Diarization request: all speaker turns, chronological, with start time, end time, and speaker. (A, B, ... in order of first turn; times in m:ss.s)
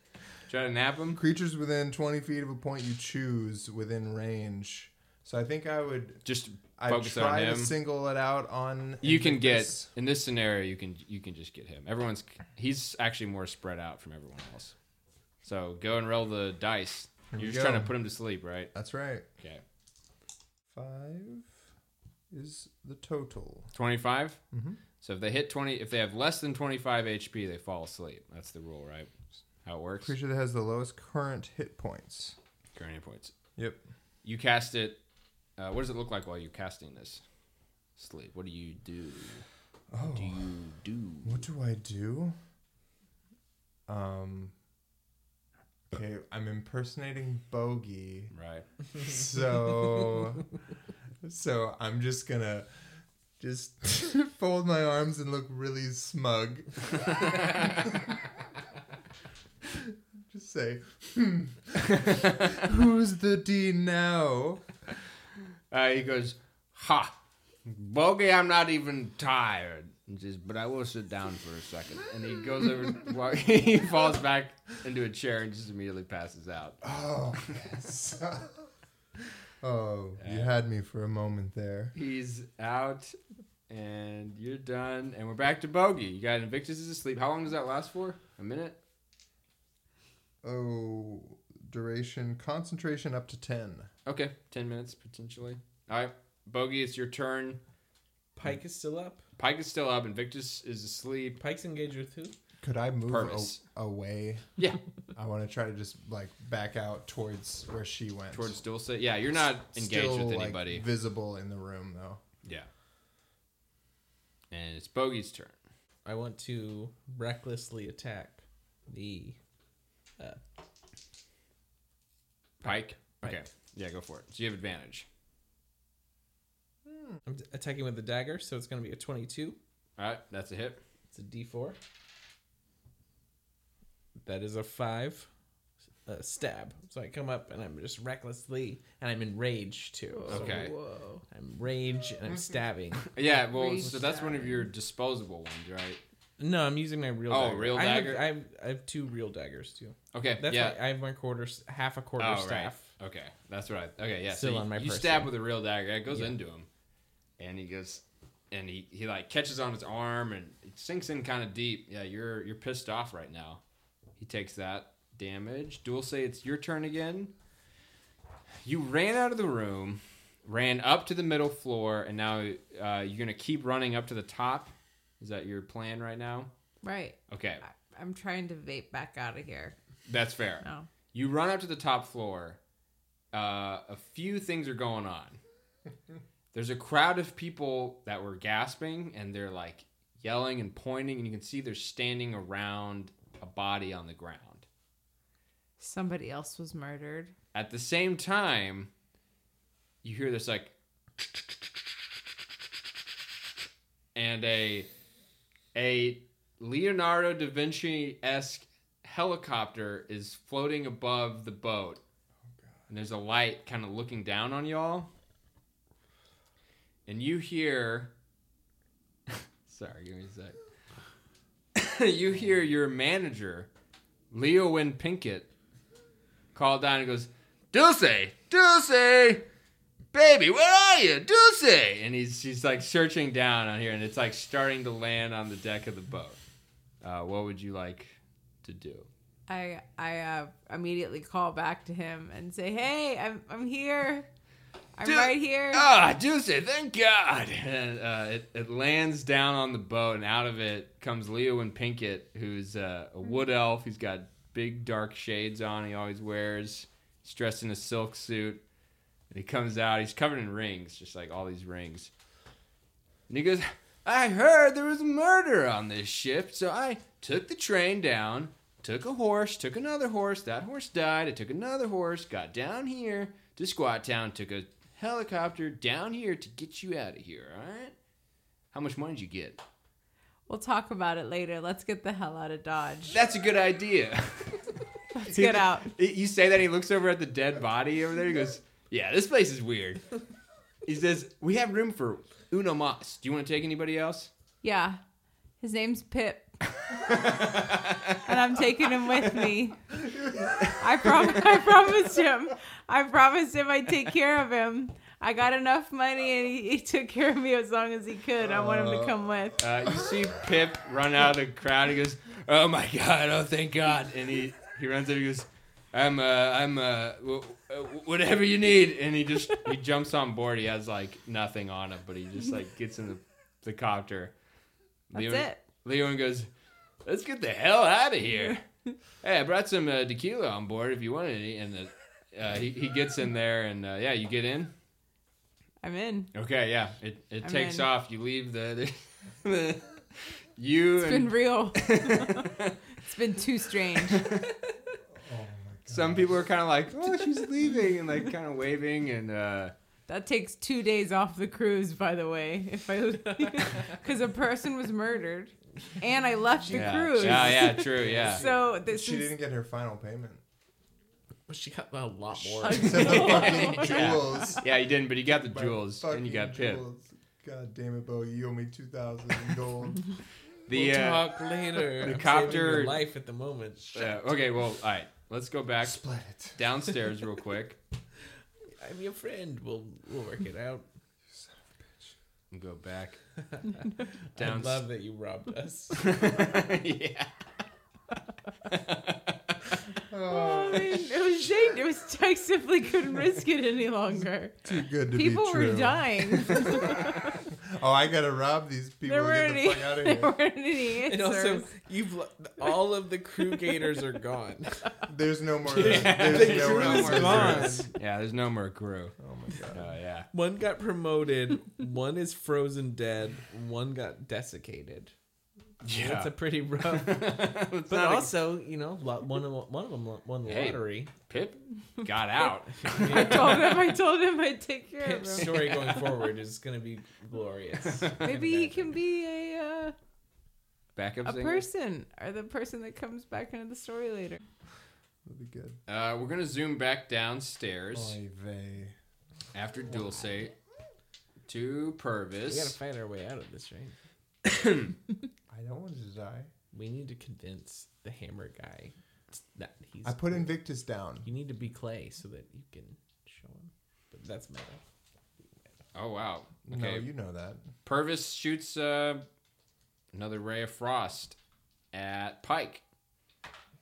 0:00.4-0:01.2 A
0:01.1-0:06.2 B
0:06.2-0:07.7 A
0:06.8-0:09.9 B
0:09.0-0:14.8 A
0:15.4-0:18.7 A
0:17.3-0:17.9 B
0:18.7-0:19.2 B
0:20.7-0:21.6 B
0:22.3-0:23.7 B
0:23.7-0:24.4 A
0:24.5-0:24.8 B
0:25.0-0:29.1 A
0:29.6-0:30.1 A
0:30.0-0:32.4 B
0:32.7-0:33.3 A
0:33.6-0:33.8 B
0:34.2-0:35.0 A
0:35.6-0:37.2 A
0:38.0-0:39.4 A
0:39.9-0:40.5 B
0:40.1-0:41.4 A
0:41.2-0:42.3 B
0:43.9-0:44.5 B
0:45.9-0:48.3 B
0:48.3-0:48.6 A
0:48.9-0:50.5 B
0:51.2-0:52.7 B
0:53.4-0:58.3 B
0:57.0-0:57.8 A
0:59.6-1:04.7 B
1:02.0-1:02.3 A
1:05.7-1:16.8 A
1:16.8-1:18.7 B
1:19.6-1:21.9 B
1:20.2-1:20.5 A
1:21.9-1:23.2 A
1:23.7-1:28.8 A
1:30.4-1:33.9 B
1:34.0-1:37.6 A
1:38.4-1:39.2 C
1:39.4-1:41.4 A
1:41.4-1:42.3 C
1:42.6-1:44.5 B
1:43.1-1:43.6 A
1:45.1-1:48.6 B
1:48.3-1:50.8 A
1:49.7-1:52.2 B
1:52.4-1:52.7 A
1:54.5-1:55.6 A
1:56.0-1:59.4 C
2:02.6-2:05.1 A
2:03.1-2:03.4 C
2:07.2-2:09.6 C
2:10.0-2:10.8 A
2:11.1-2:11.8 C
2:14.2-2:15.3 C
2:16.0-2:20.8 C
2:20.1-2:21.2 D
2:20.3-2:20.7 A
2:21.3-2:23.1 C
2:23.0-2:26.0 A
2:23.3-2:24.7 D
2:26.4-2:32.9 C
2:27.3-2:28.2 A
2:30.1-2:30.8 A
2:32.2-2:36.7 A
2:34.3-2:35.3 C
2:36.1-2:36.3 C
2:37.4-2:43.6 A
2:44.2-2:47.3 A
2:48.6-2:56.5 A
2:56.8-2:59.7 D
2:57.3-2:57.6 A
3:00.0-3:02.6 A
3:00.6-3:00.9 D
3:03.3-3:05.4 A
3:06.5-3:14.6 A
3:15.8-3:17.3 D
3:17.5-3:18.9 A
3:20.0-3:21.3 A
3:24.1-3:24.9 A
3:25.7-3:32.0 A
3:32.9-3:35.1 A
3:37.0-3:38.1 A
3:39.3-3:40.6 A
3:41.7-3:43.7 A
3:44.3-3:45.5 A
3:46.5-3:49.4 A
3:50.1-3:56.4 A
3:57.0-3:59.1 A
3:59.5-4:04.3 D
4:05.0-4:05.8 D
4:05.0-4:18.6 A
4:19.3-4:22.1 A
4:23.3-4:37.9 A
4:38.7-4:39.6 A
4:40.5-4:43.2 D
4:43.1-4:50.0 A
4:45.1-4:45.9 D
4:50.8-4:54.3 A
4:54.6-4:55.0 D
4:55.6-4:56.6 D
4:56.8-4:58.3 A
4:57.1-4:57.5 D
4:58.1-4:59.8 D
4:59.0-4:59.4 A
5:00.6-5:01.5 A
5:00.7-5:09.6 D
5:08.4-5:09.5 B
5:09.6-5:24.3 A
5:25.1-5:26.5 A
5:25.1-5:25.6 D
5:27.0-5:28.6 A
5:29.2-5:34.7 A
5:35.8-5:36.3 D
5:36.3-5:40.0 A
5:37.4-5:37.9 D
5:40.6-5:42.8 A
5:41.0-5:44.3 D
5:44.0-5:44.5 A
5:45.1-5:46.4 B
5:45.9-5:49.7 A
5:50.1-5:59.3 D
5:56.6-5:58.6 C
5:56.7-5:58.4 A
5:58.9-6:00.4 B
6:01.5-6:04.0 C
6:02.4-6:04.7 B
6:02.6-6:04.5 D
6:03.0-6:06.8 A
6:05.3-6:10.1 B
6:10.7-6:11.2 A
6:10.7-6:14.1 C
6:11.9-6:13.0 A
6:13.9-6:16.0 A
6:15.8-6:16.6 B
6:16.6-6:17.8 A
6:18.8-6:20.8 C
6:21.3-6:22.1 B
6:22.5-6:23.2 A
6:23.5-6:26.2 C
6:24.4-6:24.8 A
6:26.0-6:27.3 A
6:28.7-6:29.5 A
6:30.1-6:31.6 B
6:30.2-6:37.3 D
6:34.6-6:37.0 B
6:37.6-6:40.3 B
6:39.0-6:41.7 D
6:41.0-6:45.0 C
6:43.7-6:44.0 D
6:45.1-6:47.9 B
6:45.7-6:47.9 C
6:45.8-6:49.1 A
6:49.2-6:49.9 B
6:49.7-6:50.3 A
6:50.3-6:55.1 C
6:55.8-6:58.3 A
6:55.9-7:01.1 C
7:00.4-7:03.3 A
7:02.8-7:03.9 C
7:02.9-7:06.2 D
7:05.0-7:08.9 C
7:08.2-7:10.0 D
7:11.0-7:11.6 A
7:11.2-7:14.4 D
7:15.2-7:15.8 B
7:15.9-7:18.2 A
7:17.9-7:19.0 B
7:19.5-7:20.5 A
7:21.5-7:22.8 A
7:22.5-7:24.0 C
7:24.5-7:24.9 A
7:25.5-7:26.5 B
7:26.7-7:30.5 C
7:30.0-7:31.3 B
7:31.2-7:34.8 C
7:35.9-7:37.0 A
7:36.6-7:37.7 B
7:37.8-7:39.2 A
7:40.1-7:41.4 A
7:41.9-7:42.8 A